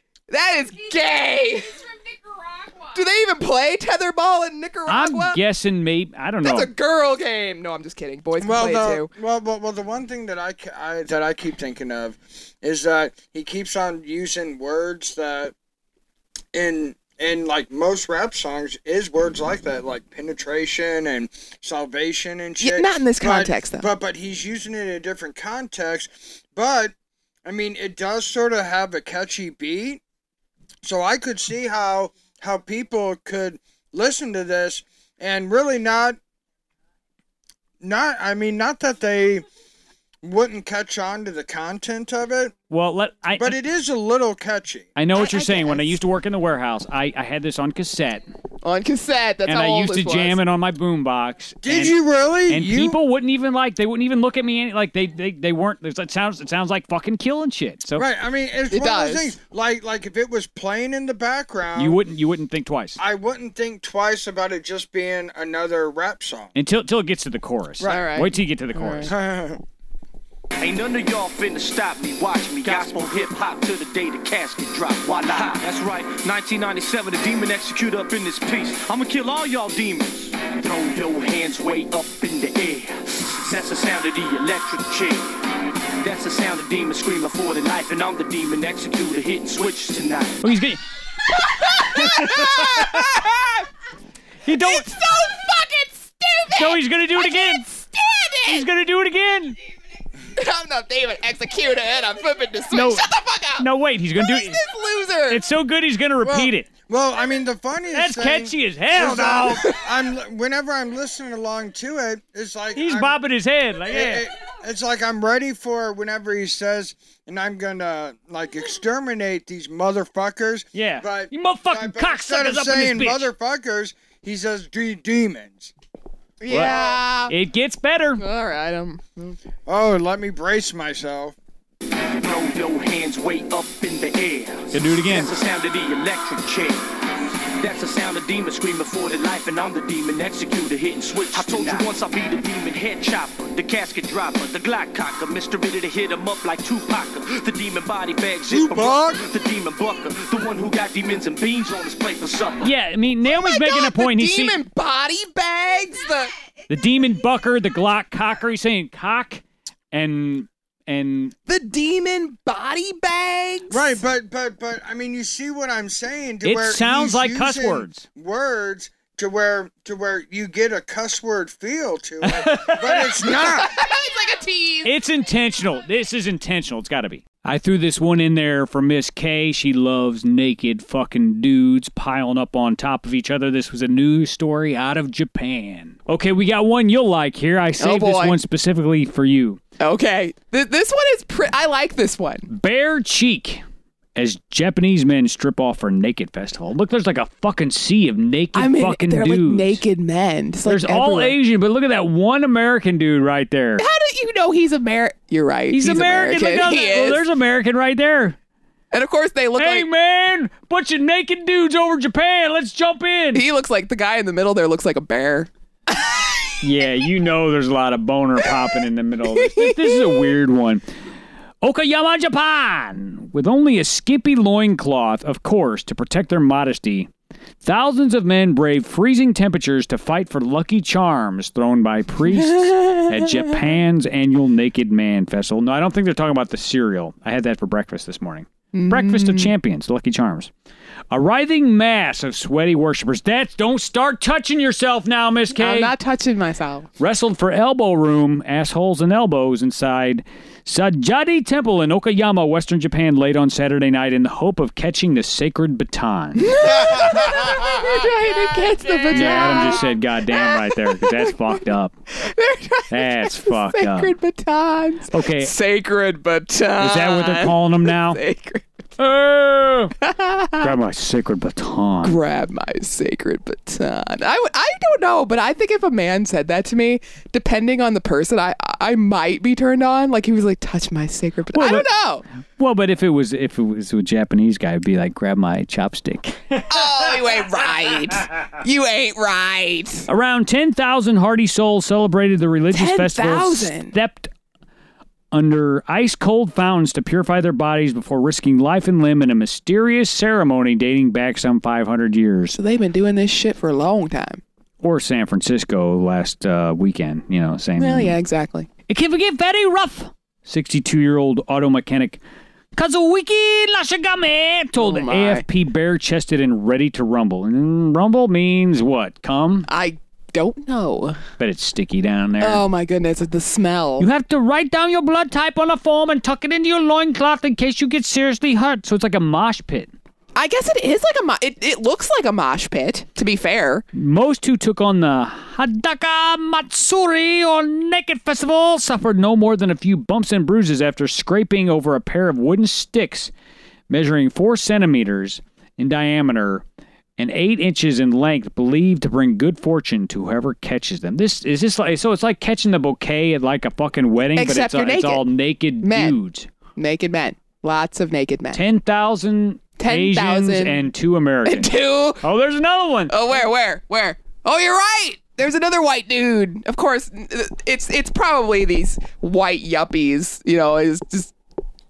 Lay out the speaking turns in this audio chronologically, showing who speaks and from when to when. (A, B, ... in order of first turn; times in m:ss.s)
0:00.3-0:01.7 A
0:00.6-0:03.1 B
0:02.9-0:05.4 A
0:04.9-0:06.7 C
0:06.4-0:09.1 A
0:08.4-0:15.5 D
0:16.5-0:26.9 D
0:22.6-0:23.9 A
0:27.4-0:30.0 D
0:30.8-0:36.2 D
0:37.8-0:39.4 D
0:40.2-0:42.5 D
0:42.7-0:43.6 C
0:43.4-0:44.9 D
0:45.0-0:48.2 C
0:45.1-0:45.9 A
0:48.6-0:50.4 A
0:49.4-0:52.0 C
0:51.6-0:53.0 D
0:52.5-0:58.0 C
0:58.0-1:02.0 D
0:58.7-0:59.3 A
1:01.8-1:03.0 C
1:03.0-1:06.5 D
1:06.5-1:09.2 C
1:07.8-1:08.0 D
1:07.8-1:09.1 A
1:09.0-1:09.6 D
1:10.6-1:30.4 E
1:30.4-1:30.8 C
1:31.5-1:33.6 A
1:31.6-1:33.2 C
1:34.4-1:34.9 C
1:34.5-1:38.6 A
1:36.5-1:37.6 C
1:38.4-1:39.6 C
1:40.3-1:45.4 A
1:42.7-1:44.6 C
1:45.3-1:46.7 C
1:46.2-1:53.2 D
1:47.9-1:49.7 C
1:52.7-1:54.2 C
1:53.9-2:05.7 D
2:00.7-2:03.3 C
2:06.4-2:07.3 A
2:06.5-2:08.2 C
2:08.2-2:09.4 A
2:09.6-2:11.3 D
2:12.2-2:16.9 E
2:14.7-2:15.3 C
2:17.6-2:32.7 E
2:21.4-2:21.6 C
2:28.5-2:29.2 D
2:32.6-2:34.6 C
2:33.3-2:36.3 A
2:36.7-2:41.3 C
2:41.5-2:44.0 A
2:43.7-2:53.7 D
2:46.4-2:48.0 C
2:52.2-2:53.6 C
2:53.2-2:54.9 A
2:54.8-3:09.6 C
3:07.8-3:08.4 A
3:09.8-3:12.5 A
3:12.5-3:13.6 C
3:14.2-3:19.8 C
3:18.5-3:21.4 A
3:20.6-3:23.8 C
3:23.8-3:27.2 A
3:25.7-3:28.4 C
3:28.9-3:29.9 A
3:29.6-3:33.4 C
3:33.3-3:36.6 A
3:36.6-3:40.8 C
3:39.3-3:40.3 A
3:41.6-3:47.1 C
3:47.6-4:00.5 C
3:52.3-3:53.6 A
3:58.7-3:59.5 A
4:01.1-4:05.9 C
4:05.5-4:06.9 A
4:07.0-4:16.6 C
4:16.4-4:21.4 A
4:19.1-4:22.0 C
4:22.1-4:28.7 A
4:22.9-4:24.2 C
4:25.1-4:25.5 C
4:26.8-4:28.2 C
4:29.0-4:30.0 C
4:30.0-4:30.7 A
4:30.6-4:32.2 C
4:32.0-4:42.2 A
4:41.5-4:41.9 C
4:42.6-4:46.9 C
4:46.7-4:50.1 A
4:50.1-4:54.3 C
4:52.7-4:53.9 A
4:55.3-5:02.6 C
5:02.5-5:04.4 A
5:04.8-5:08.1 C
5:07.8-5:08.7 A
5:08.9-5:12.2 C
5:12.7-5:19.7 C
5:14.8-5:15.4 A
5:19.7-5:21.2 A
5:21.4-5:22.6 C
5:22.4-5:24.1 A
5:24.0-5:29.9 C
5:30.3-5:33.8 A
5:33.9-5:43.3 C
5:43.9-5:46.6 C
5:47.2-5:56.5 C
5:54.4-5:55.2 A
5:55.8-5:56.2 A
5:56.8-5:58.6 A
5:58.5-6:03.2 C
5:59.8-6:00.9 A
6:01.4-6:02.2 A
6:03.1-6:11.3 A